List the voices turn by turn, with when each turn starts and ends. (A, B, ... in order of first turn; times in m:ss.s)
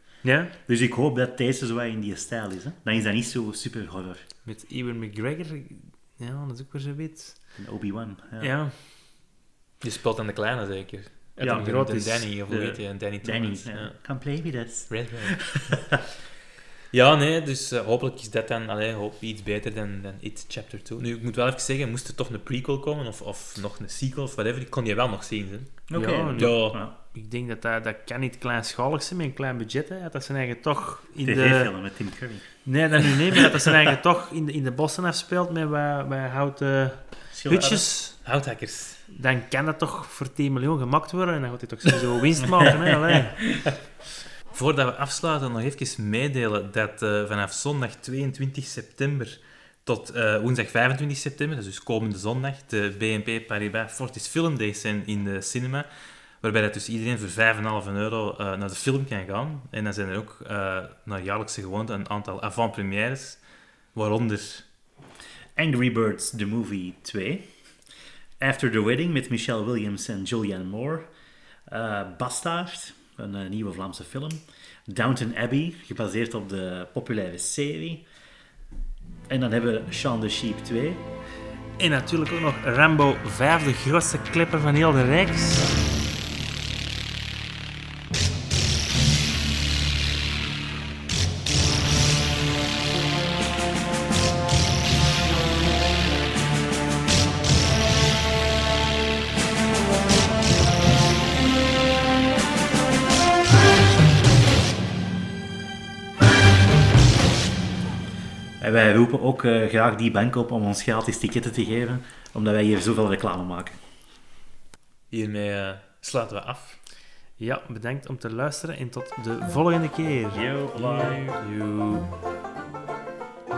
0:00.2-0:00.5 A
0:00.7-0:04.2 B
0:04.4-0:07.4 A
0:07.6-0:08.5 B
0:08.4-0:08.7 A
0:09.8-0:14.0 C
0:11.4-0:12.3 A
0:11.4-0:11.7 B
0:12.5-0:16.0 B
0:14.9-0:16.0 C
0:16.9-0:26.8 C
0:25.9-0:26.9 B
0:25.9-0:31.7 A
0:31.2-0:32.5 B
0:32.7-0:38.2 A
0:37.3-0:37.8 B
0:38.2-0:39.0 C
0:39.1-0:43.4 A
0:44.5-0:55.9 C
0:56.4-1:03.4 C
1:04.0-1:04.7 C
1:05.6-1:07.4 B
1:08.4-1:11.1 B
1:11.7-1:18.0 B
1:19.3-1:21.0 B
1:21.8-1:25.7 A
1:48.6-1:53.8 B
1:55.1-1:56.8 C
1:57.4-2:00.4 A
2:00.3-2:01.4 B
2:01.0-2:02.1 C